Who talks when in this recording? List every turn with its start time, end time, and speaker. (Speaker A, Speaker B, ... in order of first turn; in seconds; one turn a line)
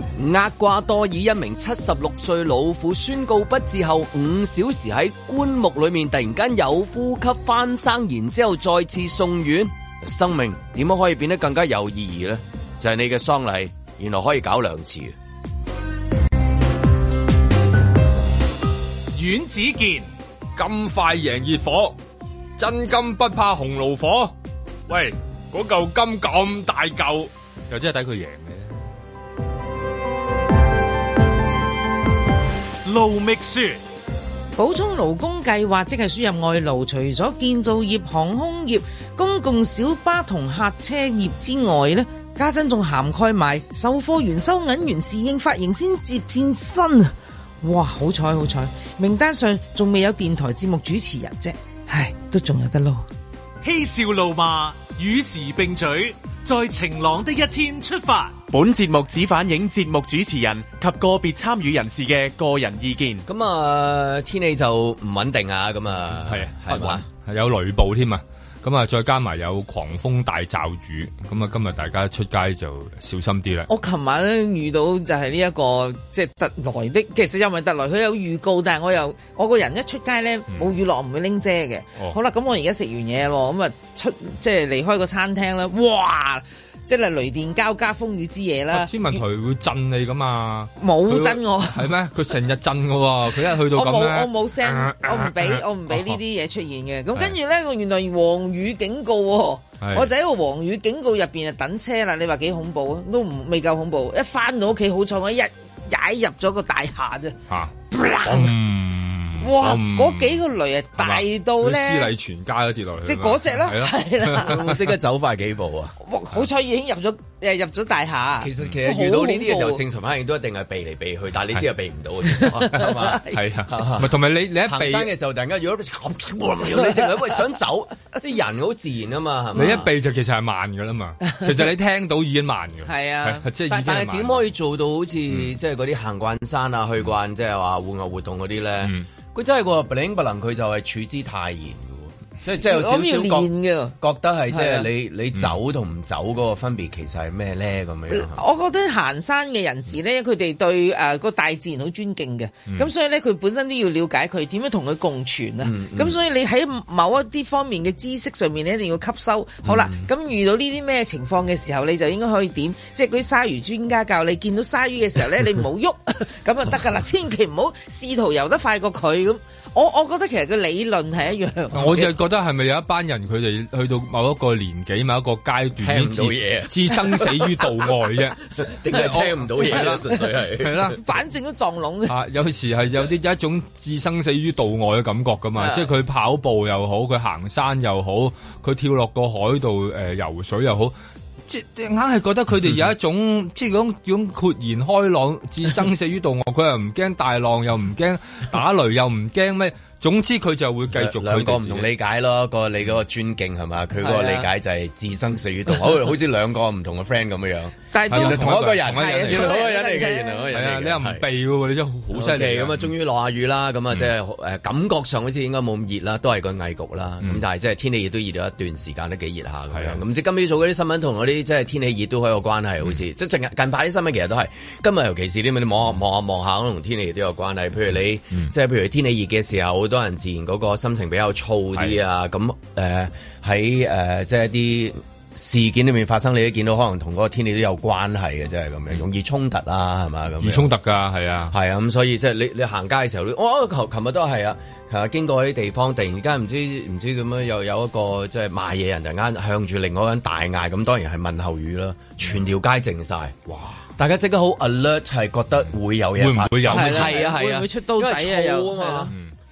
Speaker A: 0.2-15.1
Speaker B: 19.1-20.1
Speaker C: 20.6-21.9
Speaker C: 22.6-24.3
Speaker C: 24.9-28.8
Speaker B: 32.8-33.8
Speaker D: 34.6-53.0
Speaker B: 53.6-58.4
Speaker E: 58.5-63.2
Speaker A: 63.2-67.0
Speaker C: 66.2-73.7
Speaker D: 73.7-88.9
Speaker C: 88.7-96.2
Speaker D: 90.8-91.9
Speaker D: 93.7-107.3
Speaker C: 99.8-100.1
Speaker D: 107.9-108.5
Speaker C: 108.2-110.4
Speaker D: 109.4-112.1
Speaker C: 111.0-114.8
Speaker D: 113.0-114.5
Speaker A: 114.4-115.9
Speaker D: 116.0-119.8
Speaker A: 118.4-129.9
Speaker D: 122.2-123.4
Speaker C: 122.7-125.1
Speaker C: 129.5-134.4
Speaker D: 132.8-133.4
Speaker A: 133.7-143.5
Speaker D: 142.6-143.9
Speaker A: 144.0-148.4
Speaker D: 144.5-144.9
Speaker D: 148.1-172.1
Speaker A: 155.6-156.2
Speaker A: 159.7-160.1
Speaker C: 171.7-180.0
Speaker A: 175.8-177.6
Speaker A: 178.6-181.0
Speaker C: 180.6-181.0
Speaker D: 181.0-182.1
Speaker C: 182.1-190.9
Speaker C: 191.5-201.9
Speaker A: 200.9-211.2
Speaker D: 204.0-204.5
Speaker D: 207.9-210.5
Speaker C: 208.1-209.6
Speaker C: 210.5-212.9
Speaker A: 212.1-240.7
Speaker C: 219.7-220.0
Speaker C: 240.4-241.5
Speaker A: 241.5-253.3
Speaker C: 253.5-253.9
Speaker A: 254.0-259.1
Speaker C: 256.2-257.2
Speaker D: 256.7-259.1